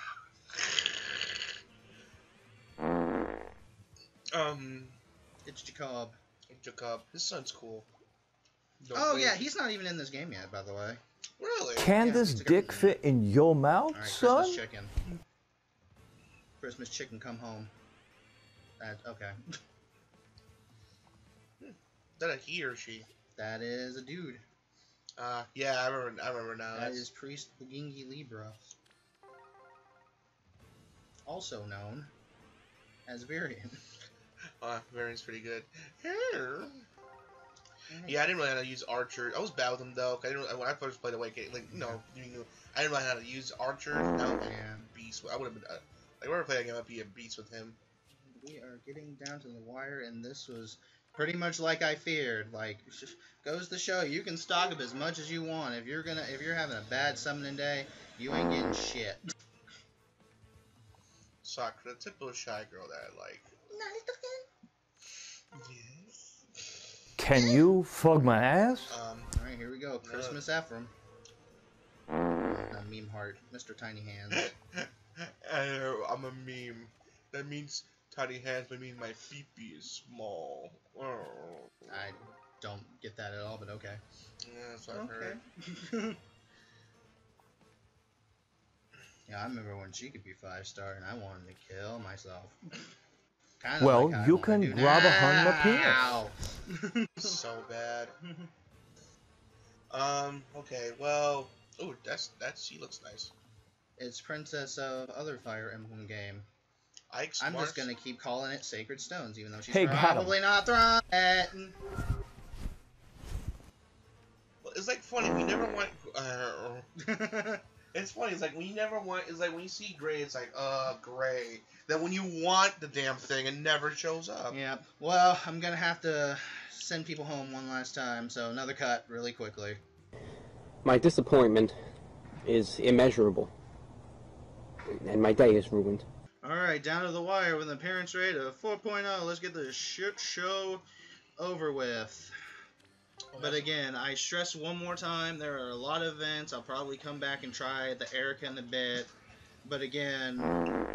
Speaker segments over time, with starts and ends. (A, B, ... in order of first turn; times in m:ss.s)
0:00.5-0:01.2 A
0:04.3-0:05.0 A
0:05.4-0:06.2 B
0:06.5-0:07.9 A
0:08.8-0:09.4 A
0:08.9-0:11.0 B
0:11.4-0:11.9 A
0:11.8-0:14.6 C
0:12.0-0:13.0 B
0:13.9-0:15.0 B
0:16.6-0:17.7 B
0:18.8-0:19.4 B
0:21.6-0:23.1 A
0:23.4-0:24.4 B
0:25.2-0:27.1 A
0:26.8-0:28.6 B
0:31.3-0:32.1 B
0:33.1-0:33.8 B
0:34.6-0:36.9 A
0:37.9-0:38.2 B
0:38.0-0:47.8 A
0:41.7-0:42.0 B
0:44.4-0:44.9 B
0:48.3-0:59.2 B
1:01.4-1:03.5 A
1:03.7-1:04.5 B
1:05.5-1:06.6 A
1:07.2-1:09.0 C
1:08.9-1:09.3 A
1:09.3-1:10.9 B
1:10.0-1:10.4 A
1:12.4-1:14.5 B
1:14.3-1:21.9 A
1:21.9-1:24.0 B
1:24.4-1:25.4 A
1:24.9-1:26.2 B
1:29.3-1:32.6 B
1:33.6-1:37.4 B
1:33.8-1:36.0 C
1:37.2-1:38.2 A
1:39.9-1:43.3 A
1:44.0-1:46.5 B
1:47.1-1:47.9 A
1:47.4-1:51.8 B
1:49.7-1:50.4 C
1:54.6-1:56.9 A
1:57.0-1:57.6 B
1:57.9-2:04.6 A
2:04.5-2:09.8 B
2:10.8-2:11.8 D
2:12.4-2:13.5 D
2:15.0-2:16.0 D
2:16.4-2:20.8 B
2:21.4-2:22.3 B
2:23.3-2:23.7 A
2:23.4-2:29.1 B
2:29.6-2:30.6 B